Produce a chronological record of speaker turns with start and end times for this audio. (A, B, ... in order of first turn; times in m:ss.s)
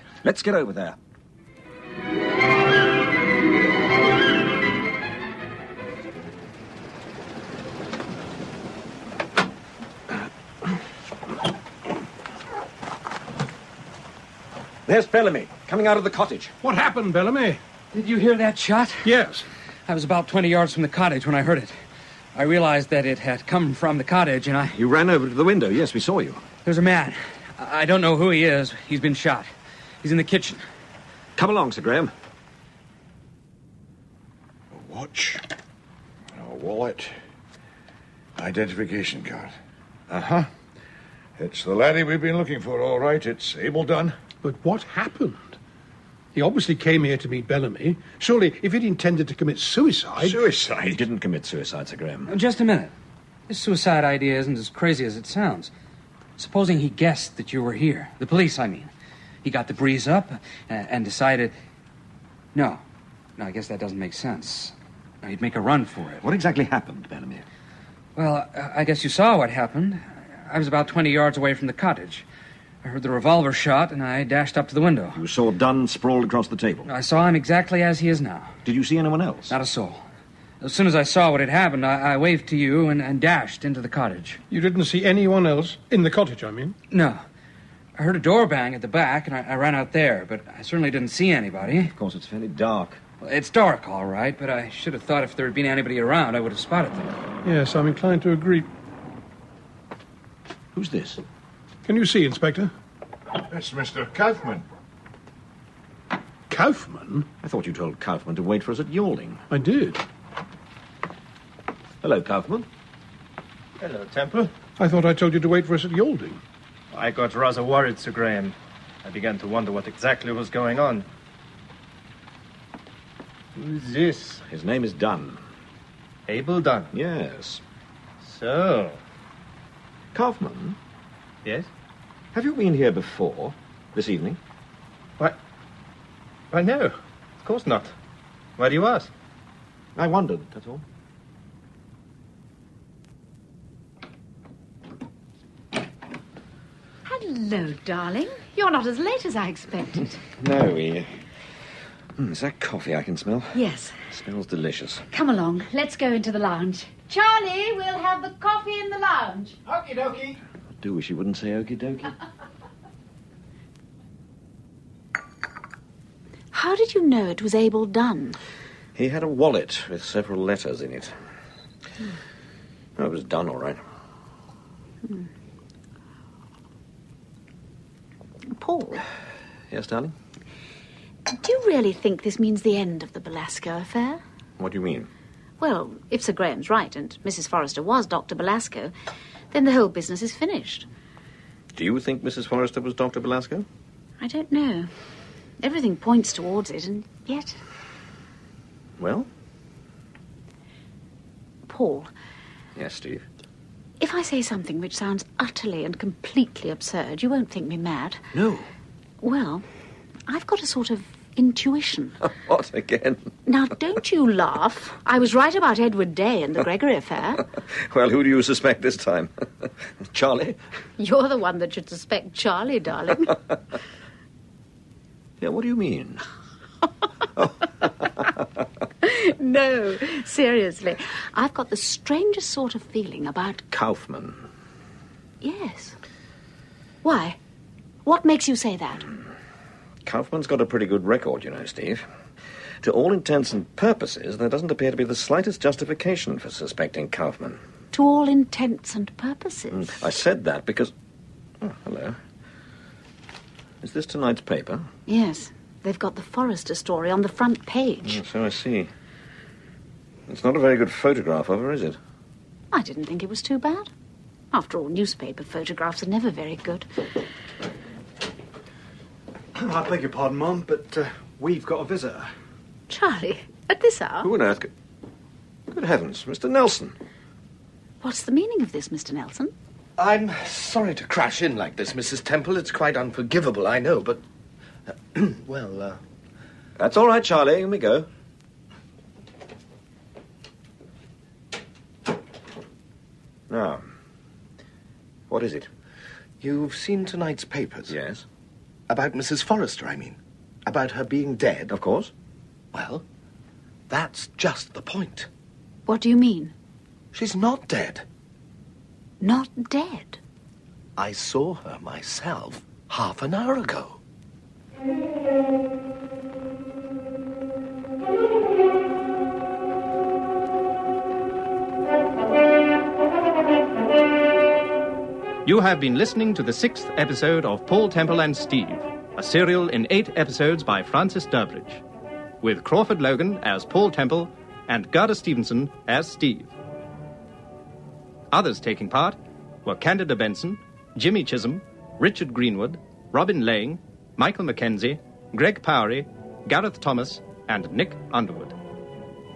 0:00.2-0:01.0 A
0:14.9-0:16.5 A
0:16.6-0:17.6 B
0:17.9-0:19.2 C
0:19.0-0:19.4 B
0:19.9-0:21.7 C
0:22.4-0:24.8 C
0:24.7-0:26.4 A
0:26.6-0:29.5 C
0:30.0-0:30.6 C
0:31.4-0:32.1 A
0:34.7-0:35.4 D
0:36.3-0:37.1 D
0:38.4-0:39.5 D
0:40.1-0:40.5 D
0:41.4-0:44.1 D
0:44.4-0:45.6 B
0:46.4-0:50.4 B
0:50.2-0:51.0 D
0:50.9-0:52.3 A
0:52.3-0:52.9 C
0:53.5-0:55.7 C
0:56.4-0:58.9 C
0:59.4-1:01.5 C
1:02.6-1:02.8 C
1:03.4-1:06.2 C
1:06.2-1:07.4 A
1:08.2-1:12.2 C
1:12.8-1:15.2 C
1:15.1-1:16.9 A
1:16.9-1:18.5 C
1:18.6-1:19.6 A
1:19.5-1:20.0 C
1:20.6-1:24.4 C
1:24.5-1:26.8 B
1:26.9-1:27.2 C
1:28.0-1:31.9 C
1:31.9-1:33.0 A
1:33.2-1:37.1 C
1:37.4-1:38.7 B
1:40.7-1:41.2 A
1:41.9-1:42.7 B
1:43.4-1:44.6 D
1:46.5-1:47.3 B
1:47.4-1:49.4 A
1:49.5-1:50.0 B
1:52.0-1:52.7 A
1:53.8-1:54.5 E
1:54.8-1:56.4 B
1:56.9-2:01.1 E
2:03.6-2:04.4 E
2:04.5-2:05.4 A
2:06.3-2:06.9 E
2:06.9-2:07.6 A
2:08.2-2:09.0 E
2:10.1-2:10.8 A
2:12.3-2:14.4 A
2:16.5-2:17.9 E
2:18.6-2:19.1 E
2:20.0-2:20.8 A
2:27.0-2:30.2 F
2:30.4-2:31.1 A
2:32.2-2:35.0 A
2:33.5-2:33.9 F
2:35.1-2:39.6 F
2:40.8-2:42.2 A
2:46.5-2:48.4 F
2:49.0-2:51.1 A
2:53.0-2:53.8 A
2:58.5-2:59.0 F
2:59.7-3:00.1 A
3:01.3-3:04.2 F
3:04.6-3:05.1 A
3:05.6-3:08.9 F
3:09.5-3:10.9 F
3:11.8-3:13.6 A
3:14.2-3:14.9 F
3:15.6-3:17.6 F
3:19.0-3:19.3 A
3:21.6-3:22.1 F
3:22.8-3:23.2 A
3:24.0-3:28.2 F
3:28.3-3:28.7 A
3:29.2-3:29.6 F
3:30.3-3:32.2 F
3:32.2-3:33.3 A
3:33.4-3:37.4 F
3:37.7-3:40.6 A
3:41.0-3:43.4 F
3:45.4-3:46.2 A
3:47.4-3:48.4 A
3:49.0-3:53.6 F
3:53.7-3:54.5 A
3:55.4-3:56.0 F
3:57.0-3:57.4 F
3:58.0-3:59.1 F
4:00.0-4:02.0 A
4:02.8-4:07.6 A
4:07.9-4:10.0 F
4:09.7-4:10.9 A
4:11.6-4:12.2 A
4:13.8-4:14.9 A
4:15.1-4:18.2 F
4:18.0-4:18.9 A
4:20.3-4:22.0 A
4:22.7-4:23.9 F
4:24.5-4:26.9 F
4:29.6-4:32.3 G
4:32.9-4:34.3 F
4:34.2-4:34.7 A
4:35.7-4:36.9 A
4:38.0-4:39.5 F
4:40.0-4:44.2 H
4:44.9-4:46.0 H
4:46.8-4:48.1 A
4:53.5-4:53.9 A
4:55.3-4:55.7 A
4:56.4-4:57.9 H
4:57.9-4:58.2 A
4:58.9-5:01.7 H
5:01.7-5:02.1 A
5:02.7-5:03.0 H
5:03.9-5:05.3 H
5:05.9-5:06.5 F
5:07.1-5:08.0 H
5:09.2-5:10.2 F
5:11.0-5:14.0 H
5:25.4-5:31.8 E
5:32.4-5:36.5 E
5:38.3-5:48.6 E